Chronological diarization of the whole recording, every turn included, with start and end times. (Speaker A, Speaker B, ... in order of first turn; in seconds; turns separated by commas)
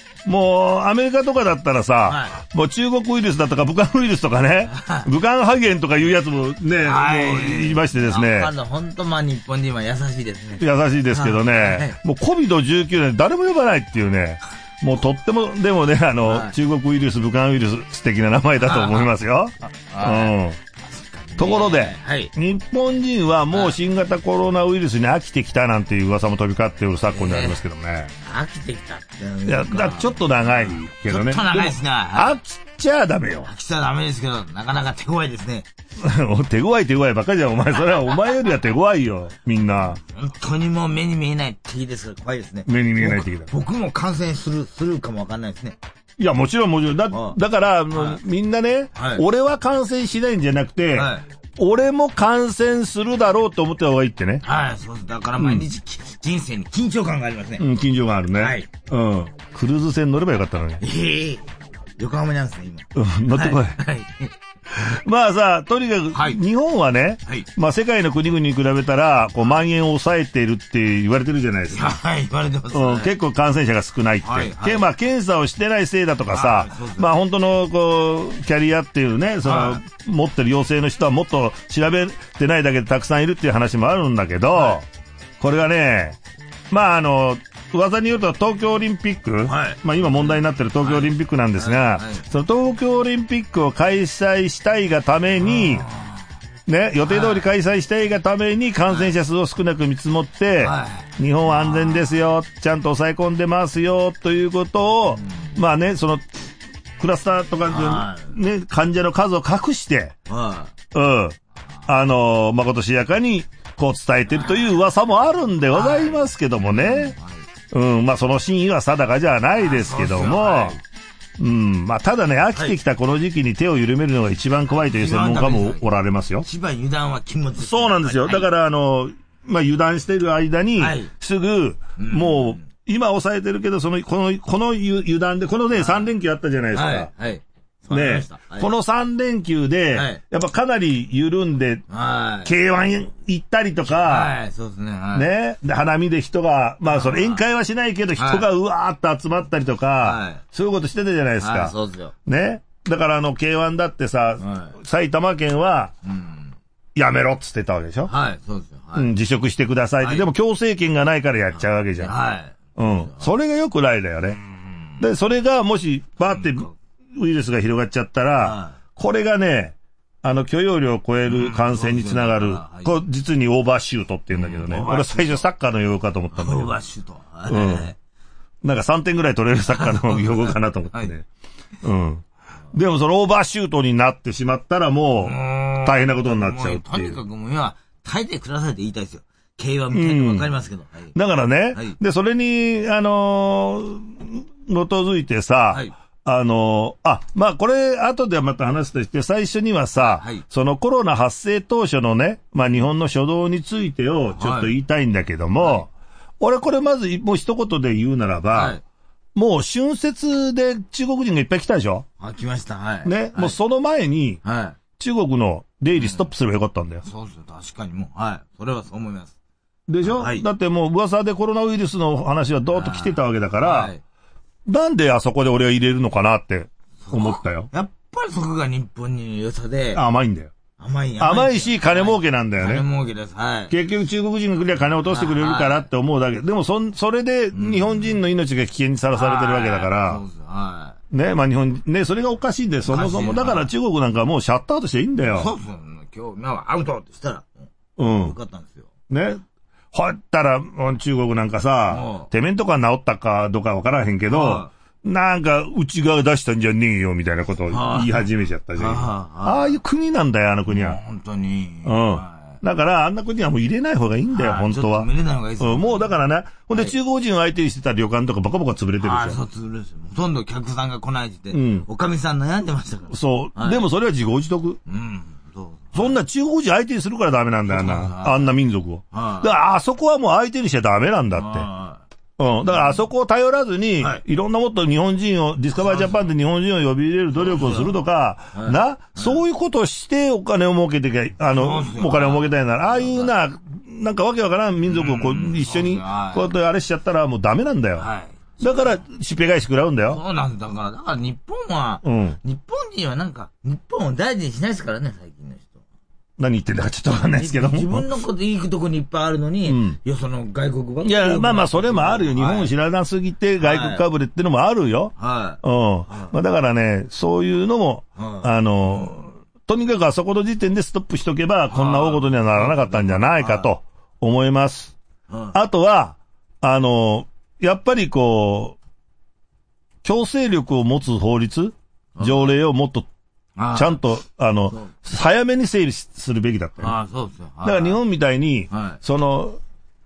Speaker A: 0.2-8.5, Speaker B: 2.1-2.4, Speaker B: 4.7-5.1, Speaker B: 6.8-12.0, Speaker A: 10.6-20.6, Speaker B: 16.2-16.5, Speaker B: 18.6-19.1, Speaker B: 19.9-22.3, Speaker A: 21.4-28.1, Speaker B: 23.5-23.8, Speaker B: 27.1-27.6, Speaker B: 28.2-32.4, Speaker A: 29.4-33.5, Speaker B: 33.4-35.6, Speaker A: 36.0-40.0, Speaker B: 40.0-45.8, Speaker A: 42.6-43.5, Speaker A: 46.2-54.4, Speaker B: 47.1-47.4, Speaker B: 47.9-48.2, Speaker B: 49.0-49.2, Speaker B: 50.9-51.2, Speaker B: 54.4-57.6, Speaker A: 55.4-55.6, Speaker A: 57.6-60.8, Speaker B: 58.4-58.7, Speaker B: 60.8-61.4, Speaker B: 62.0-64.3, Speaker A: 62.9-63.8, Speaker A: 64.7-71.9, Speaker B: 66.1-66.4, Speaker B: 71.7-73.1, Speaker A: 72.7-84.8, Speaker B: 74.2-74.9, Speaker B: 76.3-77.1, Speaker B: 79.4-79.8, Speaker B: 84.5-84.8, Speaker A: 85.4-86.2, Speaker A: 86.7-95.9, Speaker B: 89.5-92.2, Speaker B: 95.4-96.2, Speaker A: 96.7-106.2, Speaker B: 97.0-97.5, Speaker B: 100.6-102.1, Speaker B: 105.1-105.5, Speaker A: 107.0-110.2, Speaker B: 107.6-108.3, Speaker B: 110.3-110.7, Speaker A: 110.9-117.2, Speaker B: 114.3-114.7, Speaker B: 115.7-117.5, Speaker A: 117.7-120.8, Speaker B: 119.5-120.8, Speaker A: 121.4-126.5, Speaker B: 124.9-125.8, Speaker B: 126.4-128.5, Speaker A: 127.6-137.1, Speaker B: 130.8-131.1, Speaker B: 132.0-132.7, Speaker B: 135.7-136.1, Speaker B: 136.7-138.7, Speaker A: 137.9-141.8, Speaker B: 139.9-140.2, Speaker B: 141.9-142.5, Speaker A: 142.4-144.3, Speaker B: 143.9-145.3, Speaker A: 145.1-151.7, Speaker B: 146.8-147.4, Speaker B: 148.2-148.4, Speaker B: 150.0-150.4, Speaker B: 151.4-152.1, Speaker A: 152.2-155.9, Speaker B: 154.4-154.8, Speaker B: 156.0-156.6, Speaker A: 156.9-158.1, Speaker B: 158.1-159.1, Speaker A: 158.9-162.1, Speaker B: 160.0-160.3, Speaker B: 162.0-163.3, Speaker A: 162.8-164.4, Speaker B: 164.4-165.0, Speaker A: 165.0-176.8, Speaker B: 166.2-166.7, Speaker B: 168.4-168.8, Speaker B: 171.2-173.0, Speaker B: 174.3-175.4, Speaker B: 176.3-178.0, Speaker A: 177.5-177.9, Speaker A: 178.6-181.2, Speaker B: 179.7-181.1, Speaker A: 181.8-187.2, Speaker B: 185.2-191.2, Speaker A: 189.9-190.5, Speaker A: 191.1-205.9, Speaker B: 200.0-200.4, Speaker B: 204.3-204.7, Speaker B: 205.6-205.9, Speaker A: 206.4-208.8, Speaker B: 208.5-208.8, Speaker A: 209.3-212.1, Speaker B: 212.2-213.6, Speaker A: 213.0-214.4, Speaker B: 214.4-214.8, Speaker A: 215.0-217.0, Speaker B: 215.9-216.3, Speaker B: 217.0-219.3, Speaker A: 219.9-223.9, Speaker B: 220.0-220.4, Speaker B: 222.7-224.0, Speaker A: 224.7-227.7, Speaker B: 227.0-230.0, Speaker A: 229.9-230.5, Speaker B: 230.8-233.7, Speaker A: 231.2-232.8, Speaker A: 233.7-240.2, Speaker B: 235.1-235.8, Speaker B: 237.5-238.2, Speaker B: 239.1-241.0, Speaker A: 241.1-245.5, Speaker B: 242.8-243.7, Speaker B: 245.2-248.9, Speaker A: 248.0-248.3, Speaker A: 249.1-261.0, Speaker B: 251.9-252.3, Speaker B: 254.3-254.7, Speaker B: 257.7-259.8, Speaker B: 260.7-262.6, Speaker A: 261.8-269.4, Speaker B: 264.3-266.1, Speaker B: 269.0-273.9, Speaker A: 271.5-271.9, Speaker A: 273.1-274.8, Speaker B: 274.9-276.2, Speaker A: 275.9-281.7, Speaker B: 277.7-278.5, Speaker B: 279.1-279.5, Speaker B: 281.3-282.0, Speaker A: 282.4-298.1, Speaker B: 282.6-283.0, Speaker B: 285.8-286.2, Speaker B: 287.4-287.9, Speaker B: 288.5-289.4, Speaker B: 291.5-293.3, Speaker B: 294.9-296.5, Speaker B: 298.0-299.0, Speaker A: 298.6-300.2, Speaker B: 300.1-305.8, Speaker A: 302.0-302.4, Speaker A: 306.4-308.1, Speaker B: 307.3-312.7, Speaker A: 309.6-310.0, Speaker A: 311.0-324.9, Speaker B: 313.6-314.0, Speaker B: 315.2-316.3, Speaker B: 318.2-319.2, Speaker B: 321.7-323.7, Speaker B: 325.3-325.6, Speaker A: 325.5-328.8, Speaker A: 330.0-333.1, Speaker B: 332.2-332.6, Speaker B: 333.6-334.0, Speaker A: 333.7-336.9, Speaker B: 336.8-338.0, Speaker A: 337.6-339.6, Speaker B: 338.7-339.0